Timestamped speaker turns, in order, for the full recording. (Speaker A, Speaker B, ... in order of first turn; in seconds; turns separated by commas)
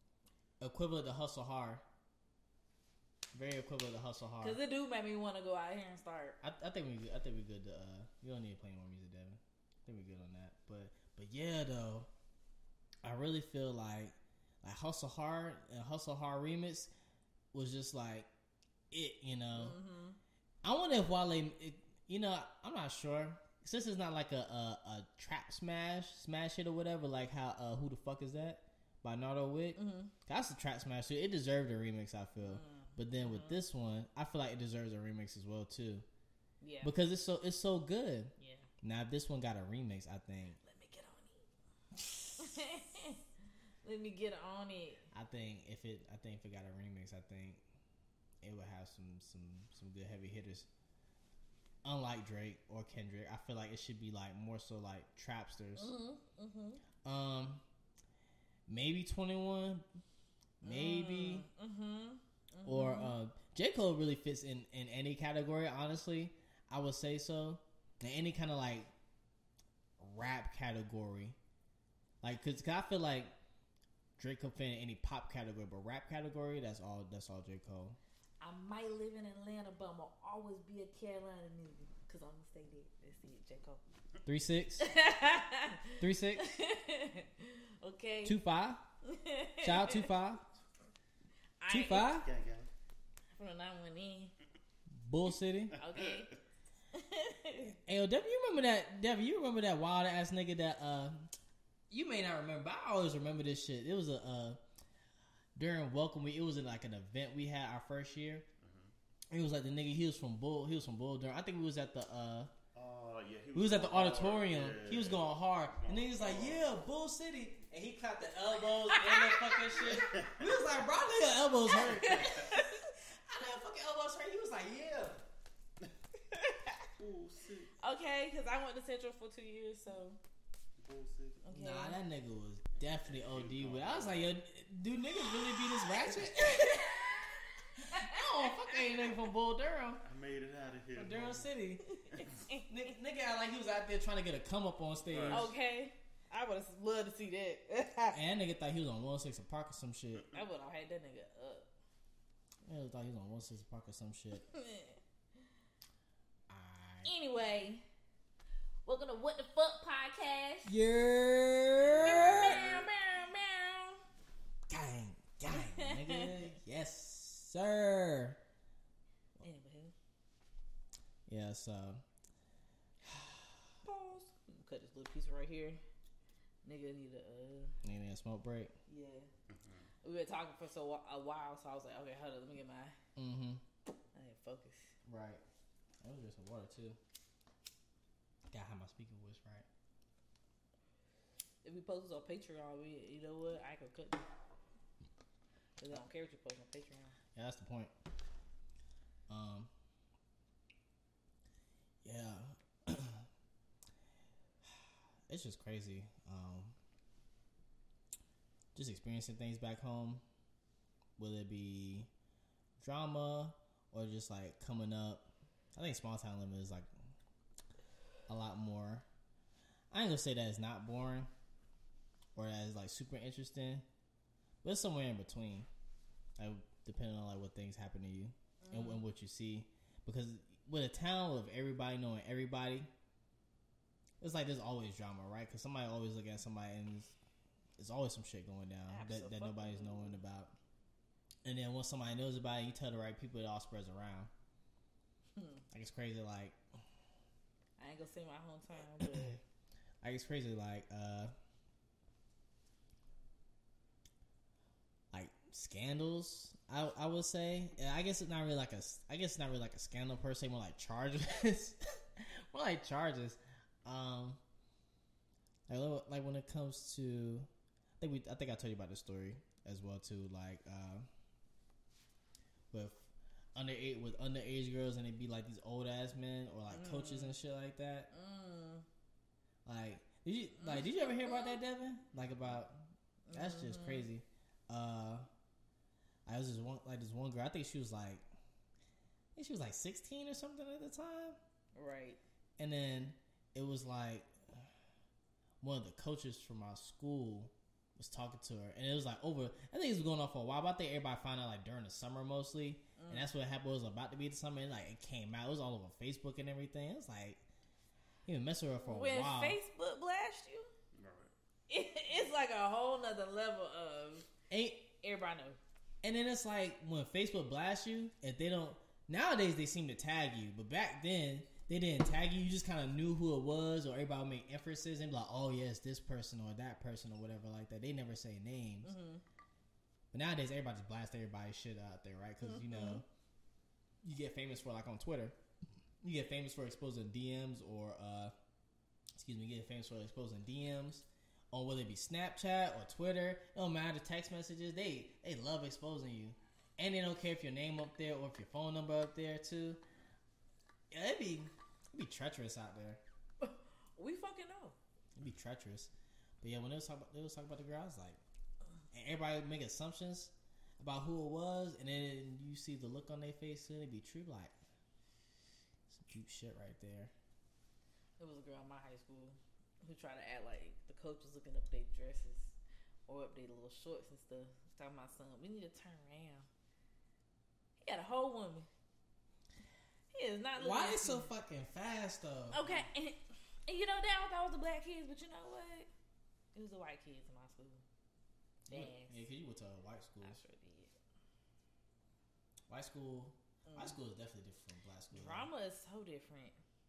Speaker A: 0.6-1.8, Speaker A: 3.3-4.6, Speaker B: 4.4-6.4, Speaker A: 6.4-12.1, Speaker A: 13.0-16.9, Speaker A: 17.5-18.3, Speaker A: 18.9-19.8, Speaker B: 19.5-20.2, Speaker A: 20.6-36.1, Speaker B: 29.8-30.1, Speaker B: 32.4-33.6, Speaker B: 36.6-36.9, Speaker A: 36.8-40.6, Speaker B: 38.4-38.7, Speaker B: 40.6-41.5, Speaker B: 42.4-43.2, Speaker B: 43.8-45.1, Speaker A: 45.1-47.6, Speaker A: 48.4-50.7, Speaker A: 51.8-55.9, Speaker B: 55.8-56.8, Speaker A: 57.0-57.6, Speaker A: 58.7-59.9, Speaker A: 60.6-61.5, Speaker B: 60.6-63.1, Speaker A: 62.7-68.9, Speaker A: 70.0-71.4, Speaker A: 72.2-73.3, Speaker A: 74.2-78.0, Speaker B: 78.4-83.8, Speaker A: 84.2-84.9, Speaker B: 84.8-88.4, Speaker A: 86.0-86.5, Speaker A: 88.2-88.8, Speaker B: 89.0-90.1, Speaker A: 89.6-90.5, Speaker B: 91.6-92.1, Speaker A: 91.7-92.3, Speaker C: 92.1-92.7, Speaker B: 93.3-94.3, Speaker A: 95.0-95.8, Speaker B: 95.8-96.3, Speaker B: 96.9-97.8, Speaker A: 97.9-101.3, Speaker A: 101.9-104.6, Speaker A: 105.6-108.5, Speaker C: 108.6-108.9, Speaker A: 109.3-112.5, Speaker C: 112.7-116.7, Speaker A: 113.5-125.2, Speaker B: 118.9-120.0, Speaker C: 120.1-120.4, Speaker B: 121.8-122.8, Speaker B: 126.3-126.8, Speaker C: 127.0-127.7, Speaker B: 127.8-130.2, Speaker C: 130.8-131.4, Speaker B: 131.4-132.0, Speaker A: 131.5-136.9, Speaker C: 133.0-134.3, Speaker B: 136.2-138.3, Speaker A: 137.8-140.0, Speaker C: 140.0-141.5, Speaker A: 140.9-141.8, Speaker B: 141.9-142.7, Speaker C: 142.1-142.4, Speaker A: 142.7-145.5, Speaker C: 145.1-145.5, Speaker B: 145.3-148.2, Speaker A: 148.1-150.3, Speaker B: 150.3-151.7, Speaker A: 152.7-154.4, Speaker B: 154.5-155.0, Speaker A: 156.5-157.1, Speaker B: 157.1-157.8, Speaker B: 158.8-160.8, Speaker A: 160.7-162.8, Speaker B: 162.0-164.0, Speaker A: 164.7-168.4, Speaker B: 165.5-166.3, Speaker B: 169.4-169.9, Speaker A: 171.3-172.0, Speaker A: 173.1-173.5, Speaker B: 173.8-175.8, Speaker B: 176.7-177.7, Speaker A: 177.8-178.7, Speaker B: 178.9-179.3, Speaker C: 179.5-179.9, Speaker B: 180.0-182.9, Speaker A: 183.2-183.6, Speaker B: 184.1-184.9, Speaker A: 185.1-185.4, Speaker A: 186.0-187.0, Speaker A: 188.5-189.7, Speaker B: 191.6-194.2, Speaker B: 195.8-197.2, Speaker A: 197.3-197.9, Speaker A: 199.3-199.7, Speaker A: 202.0-203.3, Speaker A: 205.3-206.8, Speaker A: 208.7-210.2, Speaker A: 211.2-212.1, Speaker A: 212.8-216.9, Speaker A: 218.3-219.1, Speaker A: 219.9-221.3, Speaker A: 222.3-223.8, Speaker A: 224.6-225.7, Speaker A: 226.4-232.9, Speaker B: 228.6-229.0, Speaker A: 234.2-237.2, Speaker A: 237.8-240.5, Speaker B: 238.9-240.2, Speaker A: 241.4-244.3, Speaker B: 245.4-245.6, Speaker A: 245.7-246.6, Speaker B: 247.8-249.4, Speaker A: 249.0-249.4, Speaker A: 250.0-251.3, Speaker A: 255.1-264.4, Speaker A: 265.7-267.5, Speaker A: 268.0-271.1, Speaker A: 272.7-273.0, Speaker A: 273.6-278.1, Speaker B: 276.7-277.3, Speaker B: 278.1-278.9, Speaker A: 279.6-282.8, Speaker B: 280.6-281.6, Speaker B: 283.3-284.1, Speaker A: 283.3-285.3, Speaker A: 286.3-288.2, Speaker A: 289.4-291.4, Speaker B: 291.8-292.2, Speaker A: 292.6-294.7, Speaker A: 295.6-307.4, Speaker B: 303.0-303.3, Speaker A: 308.2-309.6, Speaker B: 308.8-310.7, Speaker C: 310.9-311.3, Speaker B: 311.7-314.3, Speaker A: 314.5-314.9, Speaker B: 315.0-315.6, Speaker A: 316.0-328.9, Speaker B: 328.8-329.2, Speaker A: 330.1-333.1, Speaker B: 332.4-333.0, Speaker A: 334.0-335.4, Speaker A: 336.0-338.3, Speaker A: 339.1-349.8, Speaker A: 350.9-353.0, Speaker B: 353.4-354.8, Speaker A: 355.2-358.2, Speaker A: 358.9-364.6, Speaker A: 365.9-367.1, Speaker B: 368.2-372.6, Speaker B: 373.1-376.5, Speaker B: 377.8-378.7, Speaker B: 380.1-381.3, Speaker A: 380.6-382.8, Speaker B: 382.5-385.9, Speaker B: 386.5-387.8, Speaker A: 388.7-390.4, Speaker B: 388.7-389.2, Speaker B: 390.2-390.9, Speaker A: 392.7-395.5, Speaker B: 393.7-393.9, Speaker B: 395.1-396.6